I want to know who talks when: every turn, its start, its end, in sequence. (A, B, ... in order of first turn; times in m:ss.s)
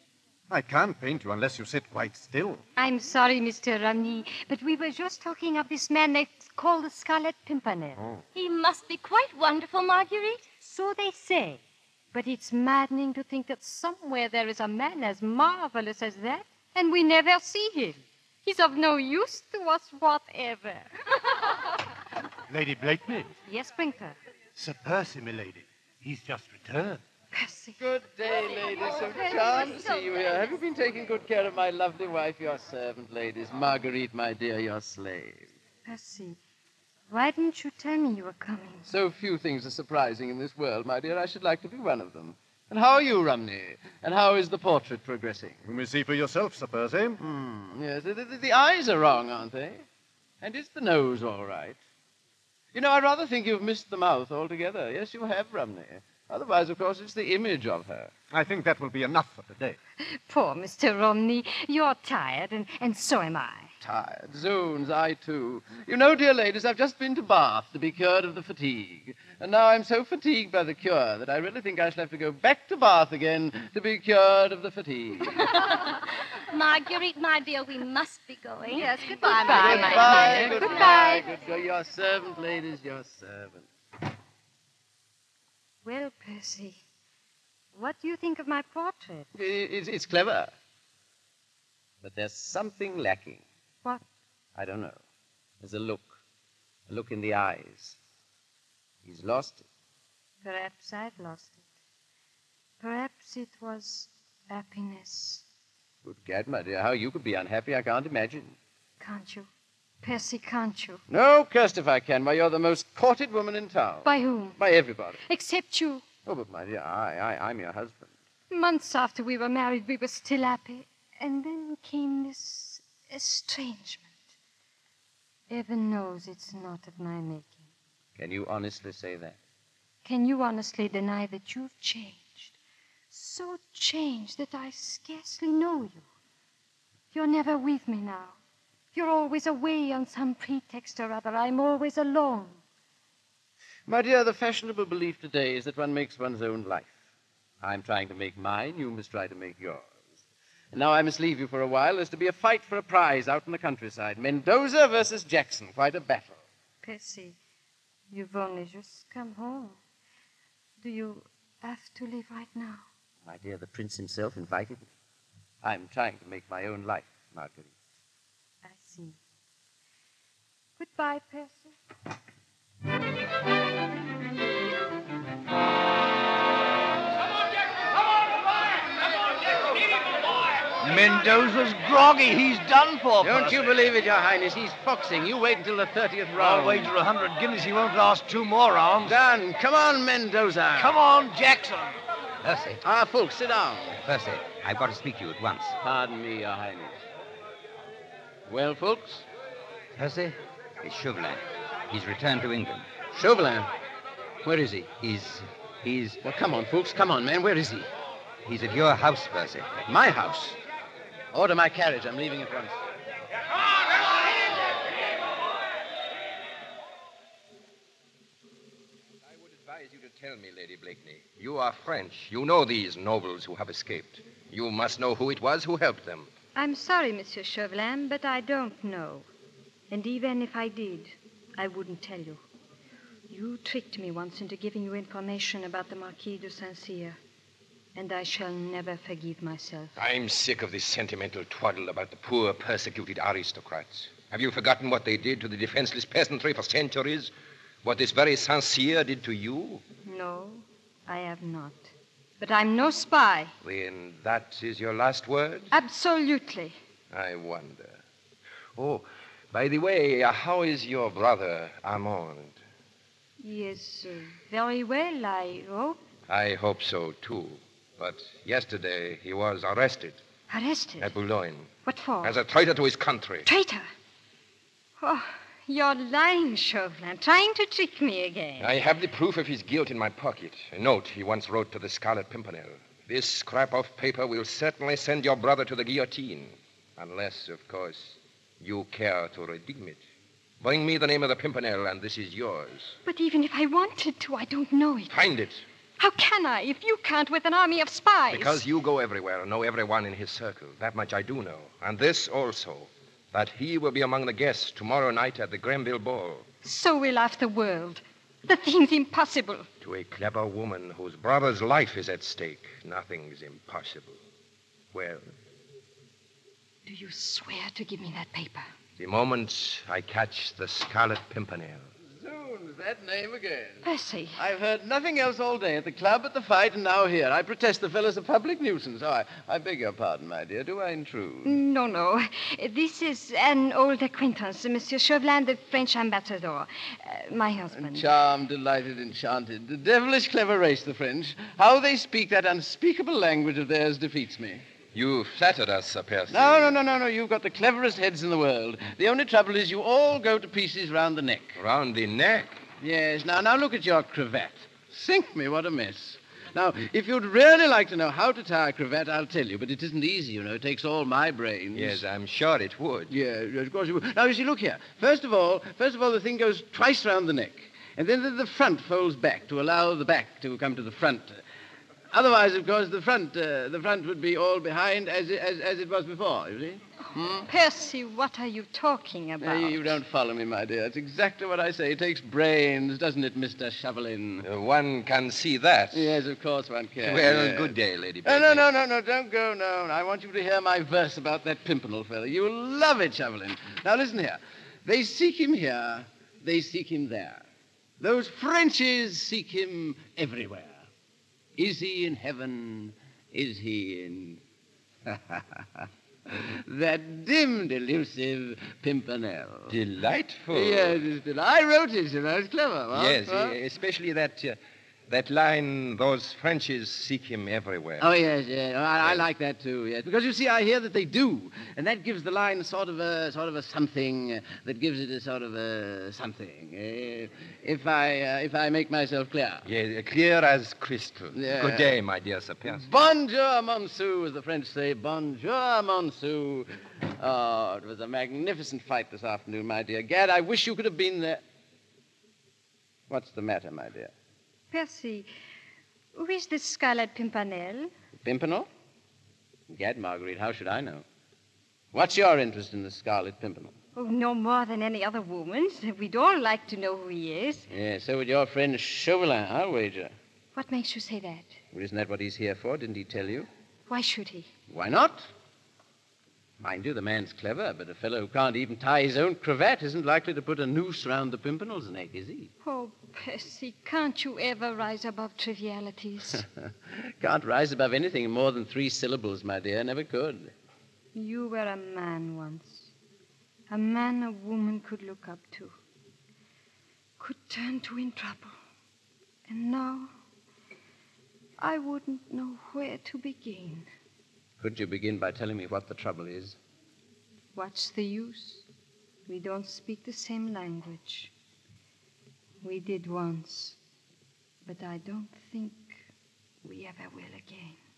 0:00.5-0:02.6 A
0:02.8-0:08.0 B
0:08.4-0:10.4 C
0:10.6-0:11.6 B
0:12.1-0:21.4 B
0:22.5-0:23.3 A
0:23.5-0:24.2 B
0:24.6-0:27.0 A
0:27.3-0:27.8 B
0:27.8-0:35.5 D
0:28.5-0:30.0 B
0:35.8-0:36.4 B
0:37.1-0:38.9 B
0:38.8-0:45.6 D
0:45.6-0:47.2 A
0:47.2-0:49.8 D
0:50.4-0:51.8 D
0:52.7-0:58.1 D
0:58.3-0:59.8 A
1:00.0-1:03.7 B
1:03.8-1:15.4 D
1:16.5-1:21.2 C
1:18.7-1:21.2 B
1:19.5-1:23.7 D
1:25.8-1:26.8 B
1:27.7-1:29.3 B
1:29.3-1:30.5 D
1:32.0-1:33.4 D
1:34.6-1:35.0 D
1:35.6-1:36.2 D
1:36.9-1:38.0 D
1:39.0-1:39.6 D
1:40.4-1:41.6 B
1:42.8-1:45.4 B
1:46.0-1:48.6 D
1:49.0-1:49.5 B
1:50.0-1:51.0 B
1:51.1-1:55.2 D
1:54.0-1:54.6 B
1:55.2-1:56.1 B
1:56.2-1:58.1 D
1:58.5-2:04.2 B
2:05.5-2:07.6 B
2:08.2-2:09.4 D
2:10.0-2:12.6 B
2:13.1-2:16.1 B
2:17.1-2:18.4 B
2:18.9-2:22.6 B
2:23.9-2:27.0 D
2:27.6-2:30.2 D
2:30.7-2:36.4 D
2:36.8-2:37.4 B
2:38.1-2:39.8 B
2:40.8-2:42.9 B
2:43.2-2:44.9 D
2:45.6-2:47.7 D
2:48.6-2:49.2 B
2:50.8-2:51.7 B
3:00.8-3:03.7 E
3:03.2-3:07.0 D
3:06.4-3:09.2 E
3:09.0-3:11.0 D
3:10.8-3:12.0 E
3:12.4-3:12.8 F
3:12.8-3:14.0 D
3:14.0-3:15.8 F
3:15.8-3:17.0 D
3:18.5-3:19.2 D
3:20.0-3:22.9 F
3:23.1-3:23.7 D
3:24.4-3:26.2 F
3:26.2-3:27.9 D
3:28.4-3:29.8 F
3:29.9-3:30.6 D
3:31.3-3:32.8 D
3:39.3-3:46.3 G
3:46.6-3:49.3 B
3:49.9-3:52.4 B
3:53.3-3:57.2 B
3:58.0-3:59.9 B
4:00.0-4:07.3 G
4:07.8-4:09.8 G
4:10.0-4:13.5 B
4:13.6-4:15.7 G
4:15.7-4:16.8 B
4:17.1-4:18.0 G
4:18.8-4:22.6 G
4:23.4-4:26.0 B
4:26.3-4:30.2 G
4:30.5-4:31.1 B
4:31.0-4:31.7 G
4:31.8-4:32.4 B
4:32.2-4:33.5 G
4:33.4-4:33.9 B
4:35.0-4:38.7 B
4:38.6-4:50.0 G
4:50.6-4:53.0 G
4:53.1-4:55.1 B
4:55.1-4:55.6 G
4:56.0-4:58.6 B
4:58.3-5:06.5 G
5:06.6-5:09.7 B
5:09.8-5:14.2 G
5:14.9-5:15.3 G
5:16.9-5:18.7 B
5:19.0-5:21.9 G
5:22.1-5:23.8 D
5:23.8-5:24.4 B
5:24.4-5:31.5 D
5:31.4-5:38.1 B
5:37.7-5:44.6 D
5:44.9-5:46.8 G
5:46.3-5:51.6 D
5:51.6-5:52.6 G
5:52.8-6:02.0 D
6:01.7-6:03.1 G
6:03.1-6:11.4 D
6:12.1-6:17.5 D
6:17.3-6:20.0 B
6:19.4-6:24.5 D
6:24.4-6:26.2 G
6:25.9-6:37.5 D
6:27.0-6:28.7 G
6:38.0-6:40.9 D
6:41.6-6:44.4 D
6:45.1-6:49.8 D
6:49.7-6:51.0 G
6:50.5-6:53.6 D
6:52.9-6:58.1 G
6:58.0-7:09.6 D
7:09.6-7:12.9 G
7:11.3-7:12.0 D
7:12.7-7:21.4 D
7:23.1-7:24.1 D
7:24.7-7:25.3 B
7:26.2-7:27.9 B
7:28.2-7:28.7 D
7:29.7-7:31.0 D
7:31.9-7:33.8 D
7:34.0-7:37.7 B
7:37.7-7:40.1 D
7:40.5-7:41.6 B
7:41.7-7:43.5 D
7:43.9-7:44.5 B
7:44.7-7:45.3 D
7:46.6-7:52.5 D
7:52.6-7:56.4 B
7:56.7-8:00.5 D
8:01.1-8:02.9 B
8:03.7-8:05.8 B
8:07.2-8:08.6 B
8:09.5-8:10.1 B
8:11.6-8:13.9 B
8:14.6-8:16.6 D
8:17.6-8:18.6 B
8:19.3-8:21.3 B
8:22.6-8:23.8 B
8:24.7-8:26.0 B
8:26.6-8:27.8 B